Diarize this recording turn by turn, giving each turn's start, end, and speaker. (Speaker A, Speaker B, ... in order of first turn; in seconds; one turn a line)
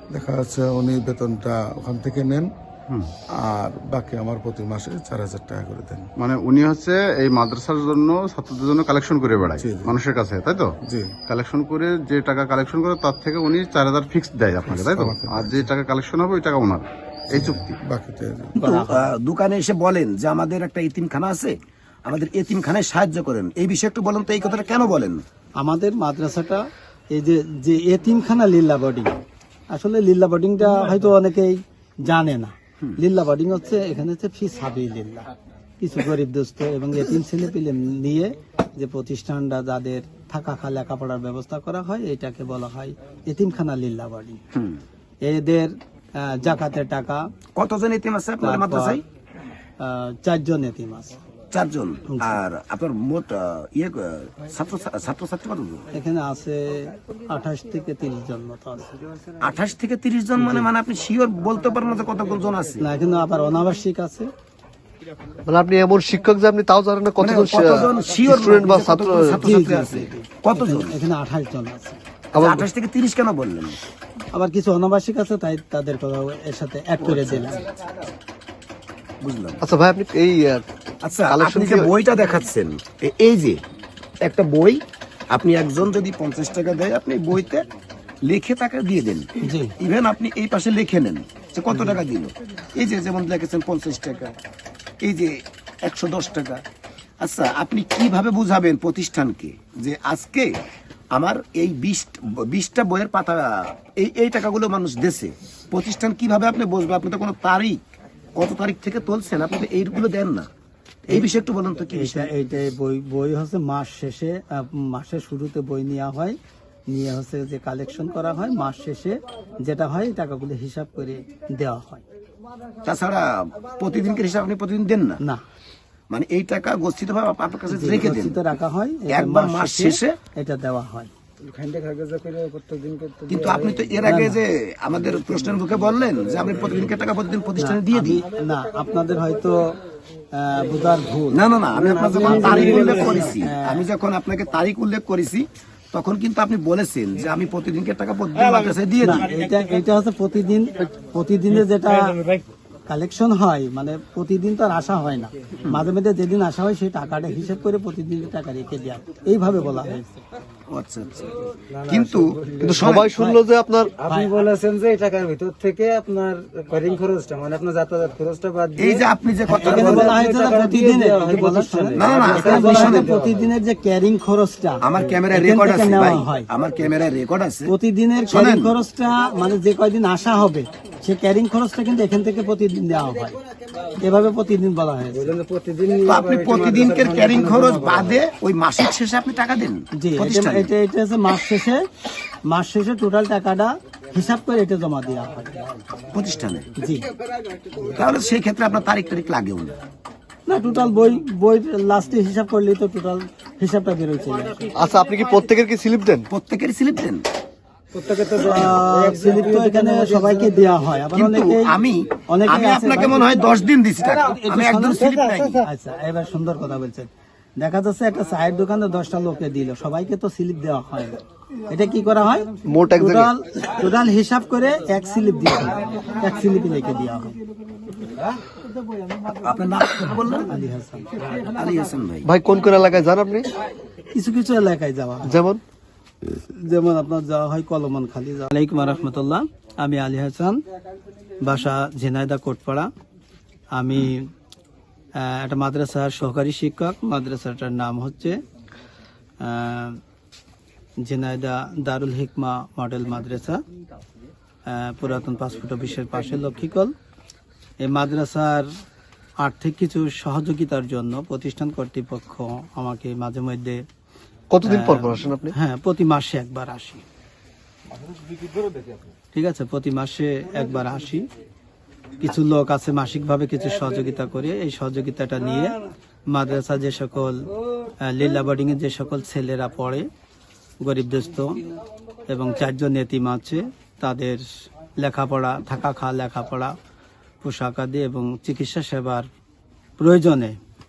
Speaker A: 0.1-2.5
Speaker A: 3.4-6.1
Speaker B: 6.2-10.7
Speaker A: 9.6-9.9
Speaker A: 10.8-11.1
Speaker B: 11.3-17.8
Speaker A: 14.7-15.7
Speaker A: 17.3-18.6
Speaker C: 18.6-19.1
Speaker D: 18.6-25.2
Speaker C: 25.6-29.1
Speaker C: 29.7-35.3
Speaker C: 35.8-44.4
Speaker D: 44.5-44.8
Speaker C: 45.2-47.2
Speaker D: 47.5-49.0
Speaker C: 48.4-49.0
Speaker C: 49.8-51.2
Speaker D: 51.5-55.8
Speaker C: 52.1-52.4
Speaker C: 55.9-59.0
Speaker E: 59.0-59.3
Speaker D: 59.4-62.9
Speaker C: 62.8-64.3
Speaker F: 65.4-69.4
Speaker D: 67.2-71.0
Speaker C: 69.4-72.0
Speaker F: 72.3-72.6
Speaker D: 72.3-73.8
Speaker C: 74.3-77.7
Speaker D: 77.0-77.5
Speaker D: 79.2-79.6
Speaker F: 79.6-80.7
Speaker D: 81.0-83.6
Speaker F: 81.3-81.9
Speaker D: 84.2-87.6
Speaker D: 88.2-89.3
Speaker C: 89.4-89.7
Speaker D: 89.8-94.3
Speaker C: 91.7-92.0
Speaker D: 95.0-96.6
Speaker D: 97.2-100.5
Speaker D: 101.1-107.8
Speaker D: 108.3-110.5
Speaker D: 111.1-112.3
Speaker C: 111.9-116.4
Speaker C: 116.9-122.0
Speaker D: 122.8-125.2
Speaker D: 126.1-128.4
Speaker C: 127.7-131.1
Speaker D: 129.1-130.2
Speaker E: 131.4-133.8
Speaker D: 133.3-138.2
Speaker C: 134.0-134.4
Speaker C: 137.6-139.7
Speaker C: 140.3-141.4
Speaker D: 141.3-149.3
Speaker E: 141.8-143.0
Speaker C: 142.1-143.9
Speaker C: 149.0-152.2
Speaker C: 152.9-160.2
Speaker D: 160.7-163.1
Speaker E: 161.7-162.6
Speaker F: 162.6-163.9
Speaker C: 163.1-163.4
Speaker E: 164.0-169.0
Speaker C: 164.1-164.3
Speaker D: 168.8-170.2
Speaker C: 169.5-176.5
Speaker E: 169.6-173.4
Speaker D: 171.9-173.1
Speaker D: 174.8-177.7
Speaker C: 177.7-183.4
Speaker D: 178.3-178.7
Speaker C: 183.9-185.3
Speaker E: 185.2-188.1
Speaker D: 186.0-190.7
Speaker C: 190.0-191.8
Speaker C: 192.5-195.7
Speaker D: 196.1-196.7
Speaker C: 196.8-197.1
Speaker D: 197.8-199.8
Speaker C: 200.4-204.7
Speaker F: 204.7-206.3
Speaker D: 206.3-207.2
Speaker E: 207.9-210.5
Speaker C: 208.3-211.7
Speaker D: 211.1-215.6
Speaker C: 212.3-227.4
Speaker E: 215.1-215.6
Speaker F: 222.7-223.3
Speaker D: 229.2-230.5
Speaker C: 230.3-231.1
Speaker D: 231.4-232.3
Speaker F: 232.2-233.5
Speaker C: 234.1-235.4
Speaker F: 235.3-235.6
Speaker C: 236.3-240.6
Speaker C: 241.4-242.9
Speaker C: 243.7-244.3
Speaker C: 245.2-248.4
Speaker C: 249.4-250.0
Speaker C: 251.0-253.6
Speaker C: 254.7-256.9
Speaker C: 257.8-258.7
Speaker C: 259.4-263.8
Speaker F: 264.5-265.5
Speaker C: 264.6-267.0
Speaker C: 269.3-271.2
Speaker C: 272.2-275.8
Speaker C: 276.3-277.4
Speaker C: 278.0-280.1
Speaker C: 280.8-281.6
Speaker C: 282.3-284.4
Speaker C: 285.0-286.7
Speaker C: 287.4-289.3
Speaker C: 290.0-290.6